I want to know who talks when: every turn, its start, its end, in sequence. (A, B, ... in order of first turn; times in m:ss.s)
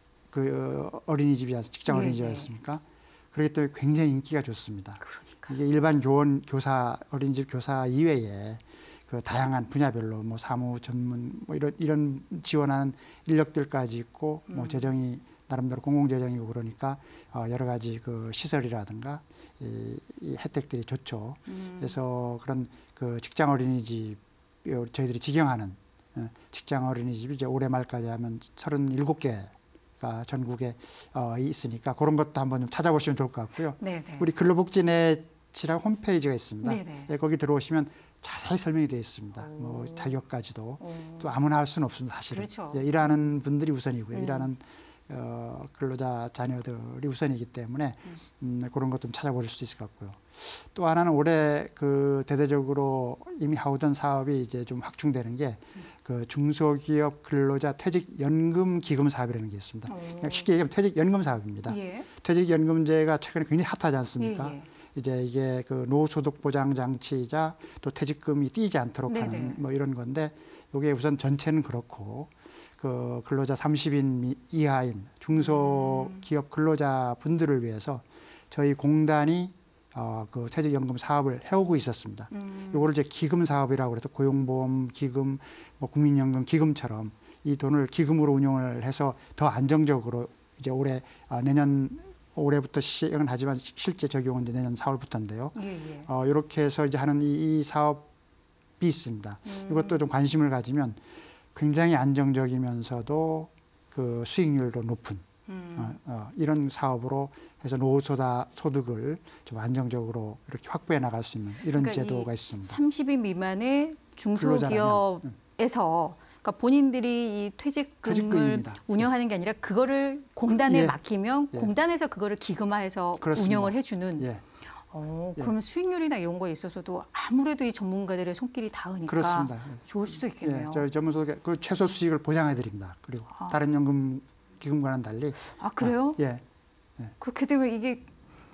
0:00.3-1:38.1 A
0:01.9-0:02.5 B
0:05.0-0:05.5 B
0:14.5-0:14.8 B
0:21.5-0:22.0 B
0:33.8-0:34.3 B
0:36.6-0:37.1 B
0:39.4-0:40.2 B
0:40.8-0:41.3 B
0:42.3-0:42.9 B
0:44.1-0:44.5 B
0:59.9-1:00.5 B
1:01.7-1:02.1 B
1:04.2-1:04.7 B
1:09.1-1:09.6 B
1:15.4-1:16.2 B
1:22.3-1:22.9 B
1:35.6-1:36.1 B
1:38.8-1:41.0 A
1:39.5-1:40.0 B
1:41.6-1:45.2 A
1:45.5-1:46.0 B
1:45.8-1:52.8 A
1:51.7-2:04.3 B
1:54.4-1:55.3 A
1:58.0-1:59.1 A
2:00.6-2:01.0 A
2:03.2-2:04.4 A
2:04.9-2:10.9 B
2:09.1-2:09.8 A
2:10.4-2:16.4 A
2:15.5-2:16.2 B
2:17.2-2:18.1 B